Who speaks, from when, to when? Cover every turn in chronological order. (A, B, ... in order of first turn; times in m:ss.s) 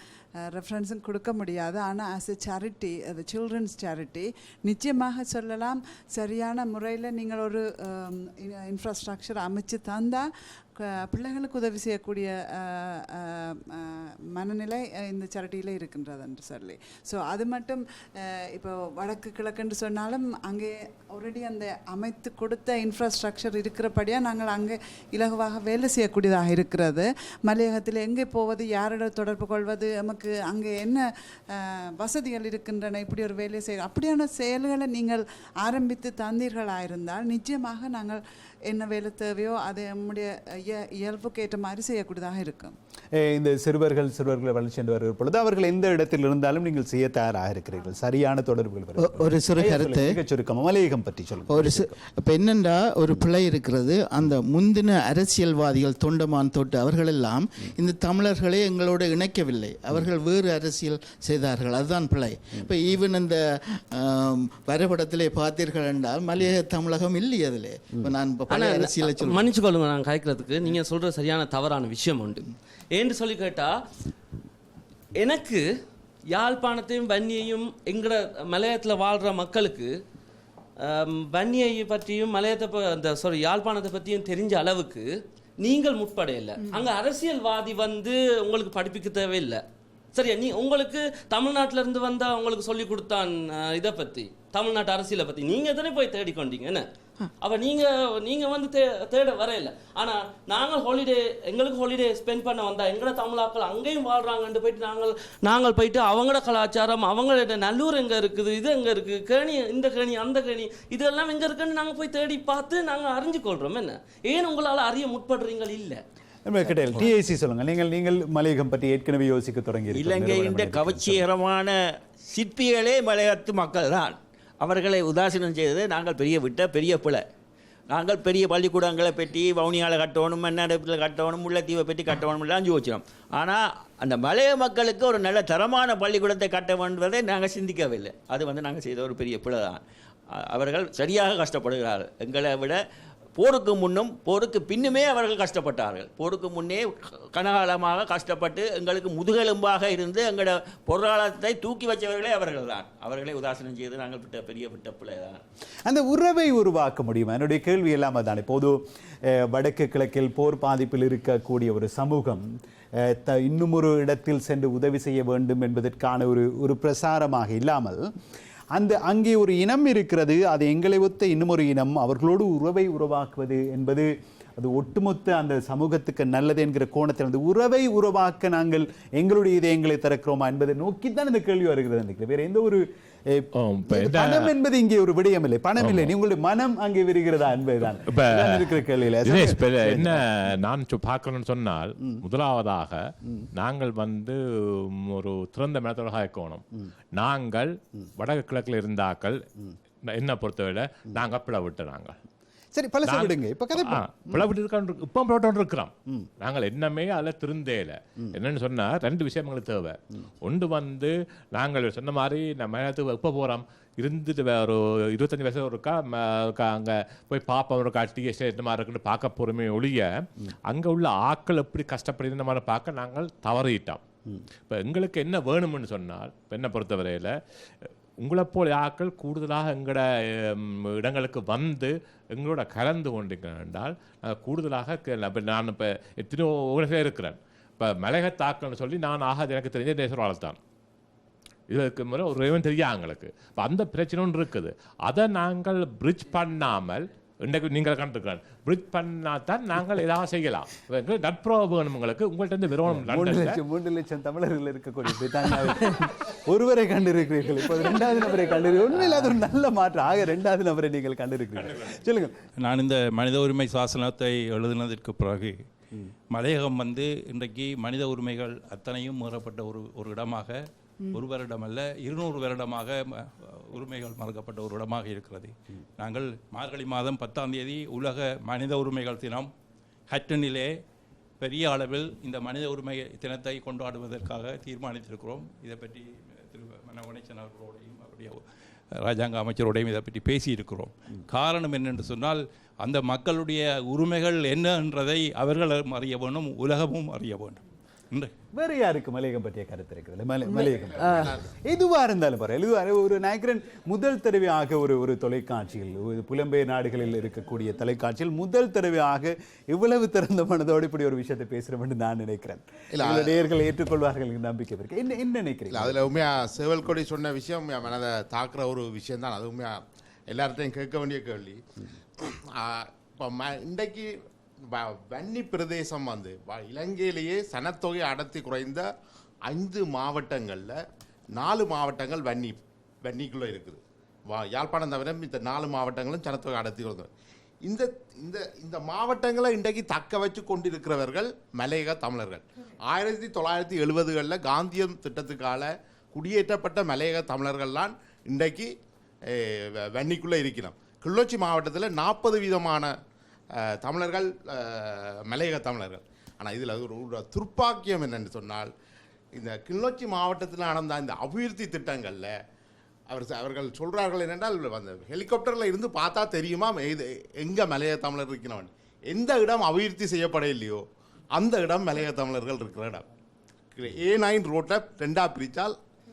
0:00.4-0:42.7 A
0:43.1-0:52.0 B
0:49.0-0:50.2 C
0:51.5-1:09.5 C
1:08.5-1:13.7 D
1:15.2-1:15.6 D
1:16.3-1:19.9 D
1:20.8-1:25.1 D
1:25.6-1:29.6 D
1:30.1-1:36.8 D
1:37.4-1:56.0 D
1:56.4-2:01.2 B
1:59.9-2:07.2 E
2:07.9-2:19.8 E
2:20.3-2:22.8 E
2:23.4-2:35.4 E
2:35.8-2:42.4 B
2:43.0-2:48.1 B
2:48.7-3:10.2 B
3:03.6-3:04.5 F
3:05.8-3:06.1 F
3:08.1-3:08.7 F
3:09.2-3:19.4 F
3:20.1-3:22.2 F
3:22.7-3:24.5 B
3:23.1-3:40.1 F
3:40.7-3:44.0 F
3:44.7-3:47.3 F
3:48.2-4:00.6 F
4:01.7-4:13.6 F
4:12.8-4:22.3 B
4:22.6-4:25.7 G
4:26.3-4:39.5 G
4:40.1-4:40.8 G
4:41.4-4:48.4 G
4:49.0-4:58.3 G
4:58.5-5:16.0 B
5:13.0-5:13.3 H
5:15.7-5:21.6 H
5:22.2-5:24.1 H
5:24.7-5:28.9 H
5:29.5-5:30.8 H
5:31.3-5:37.1 H
5:37.6-5:48.7 H
5:49.3-5:52.9 H
5:53.6-5:58.7 H
5:59.3-6:02.3 H
6:03.1-6:13.0 H
6:13.8-6:15.7 H